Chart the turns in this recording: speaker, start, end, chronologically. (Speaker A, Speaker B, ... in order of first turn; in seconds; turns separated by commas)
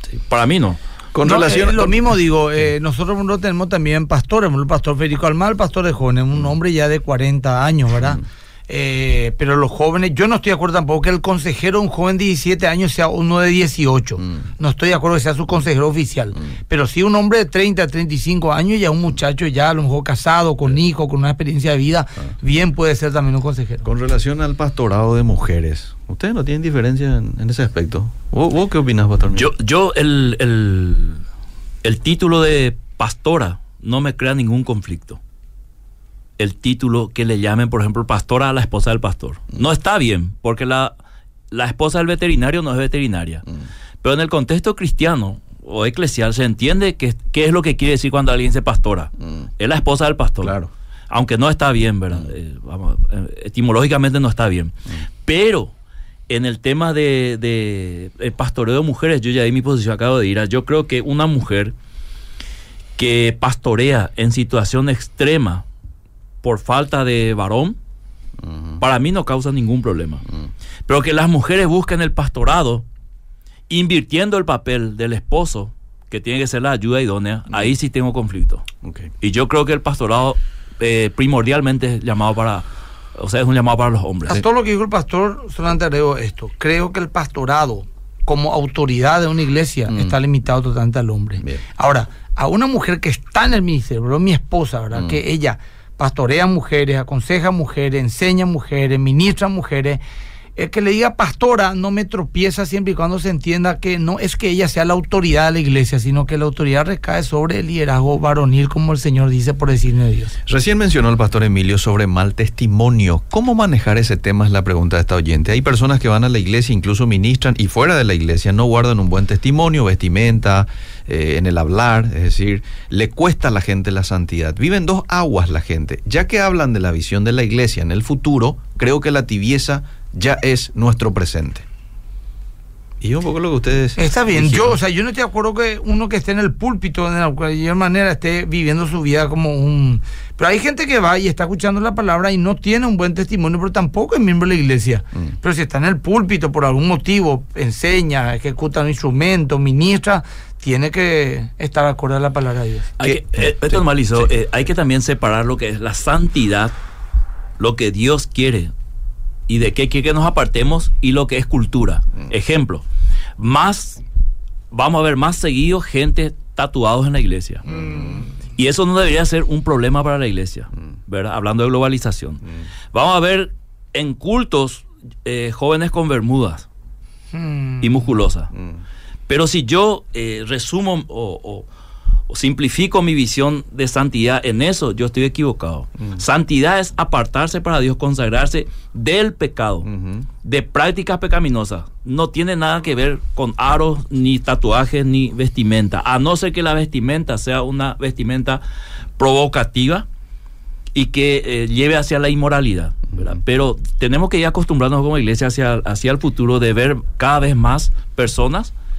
Speaker A: 0.3-0.8, Speaker B: 1.1-1.9, Speaker C: 1.2-23.9, Speaker B: 23.8-29.5, Speaker A: 29.4-31.2, Speaker A: 31.8-35.2, Speaker A: 36.4-40.9, Speaker A: 41.5-43.4, Speaker A: 44.0-50.6, Speaker B: 50.4-50.7, Speaker A: 51.1-54.7, Speaker A: 55.2-55.7, Speaker A: 56.3-61.7, Speaker A: 63.0-65.6, Speaker A: 66.4-67.8, Speaker B: 68.4-68.8, Speaker A: 68.8-70.2, Speaker A: 70.9-72.8, Speaker A: 73.7-78.6, Speaker B: 78.8-79.1, Speaker A: 79.2-84.4, Speaker C: 84.3-100.0, Speaker C: 100.5-110.3, Speaker B: 110.5-131.7, Speaker B: 133.0-134.8, Speaker C: 134.0-152.9, Speaker A: 153.0-156.7, Speaker B: 153.0-154.3, Speaker A: 157.6-158.7, Speaker A: 159.5-162.8, Speaker A: 163.4-164.0, Speaker A: 164.7-167.7, Speaker B: 167.7-168.2, Speaker C: 167.7-168.3, Speaker A: 168.6-172.4, Speaker A: 172.9-176.7, Speaker C: 177.3-178.0, Speaker A: 177.8-178.5, Speaker A: 179.3-181.7, Speaker A: 182.3-189.9, Speaker B: 189.8-190.3, Speaker A: 190.4-198.6, Speaker A: 199.2-200.1, Speaker A: 200.9-208.7